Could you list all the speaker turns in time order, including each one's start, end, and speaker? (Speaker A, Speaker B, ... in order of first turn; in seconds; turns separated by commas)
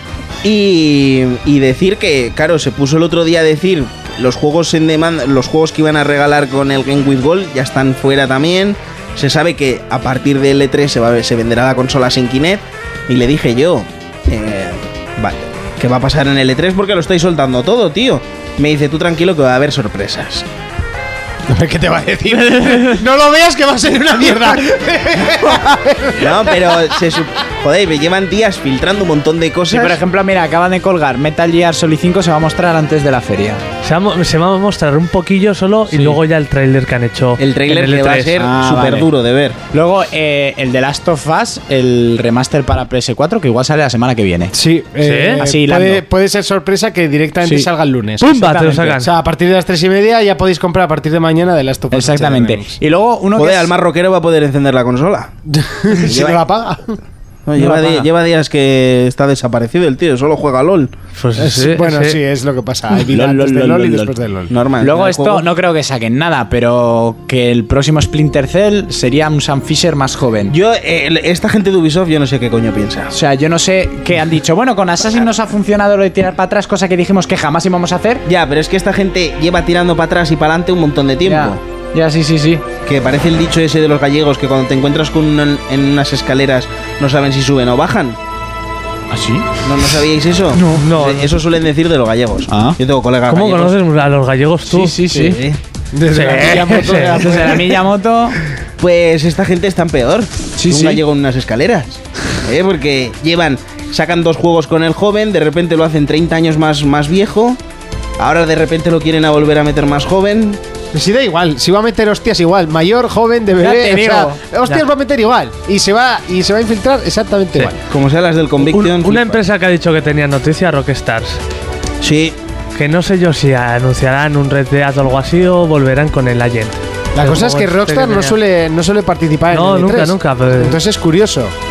Speaker A: 0.4-20.4, Speaker B: 21.5-26.8, Speaker C: 22.5-23.0, Speaker A: 26.1-30.0, Speaker C: 29.7-33.6, Speaker D: 33.8-38.3, Speaker C: 35.9-36.2, Speaker A: 37.4-39.6, Speaker C: 38.4-39.1, Speaker C: 39.7-44.5, Speaker B: 44.5-48.3, Speaker D: 45.0-45.4, Speaker C: 45.4-46.0, Speaker C: 47.4-47.7, Speaker C: 48.2-49.0, Speaker D: 48.2-49.1, Speaker B: 49.0-52.8, Speaker C: 51.9-53.7, Speaker A: 53.3-55.3, Speaker B: 55.5-57.0, Speaker A: 55.9-56.4, Speaker A: 57.5-60.9, Speaker C: 57.5-58.1, Speaker D: 61.1-62.2, Speaker B: 61.4-64.5, Speaker C: 63.1-64.1, Speaker A: 64.5-65.4, Speaker C: 64.8-70.5, Speaker A: 70.5-73.1, Speaker C: 73.1-78.2, Speaker A: 78.2-81.6, Speaker C: 81.2-82.6, Speaker A: 82.8-88.2, Speaker C: 89.1-90.0, Speaker A: 89.6-93.8, Speaker C: 90.5-90.8, Speaker D: 90.7-91.3, Speaker C: 92.5-92.8, Speaker D: 93.3-95.0, Speaker C: 94.7-95.4, Speaker A: 95.1-95.6, Speaker B: 95.9-97.8, Speaker D: 96.1-97.3, Speaker C: 97.1-98.4, Speaker A: 98.8-107.6, Speaker C: 100.6-101.0, Speaker A: 108.2-110.6, Speaker B: 110.9-117.8, Speaker C: 113.6-114.4, Speaker A: 117.9-119.4, Speaker D: 118.6-121.4, Speaker A: 122.0-122.4, Speaker D: 122.7-128.4, Speaker B: 127.1-131.5, Speaker D: 129.5-130.8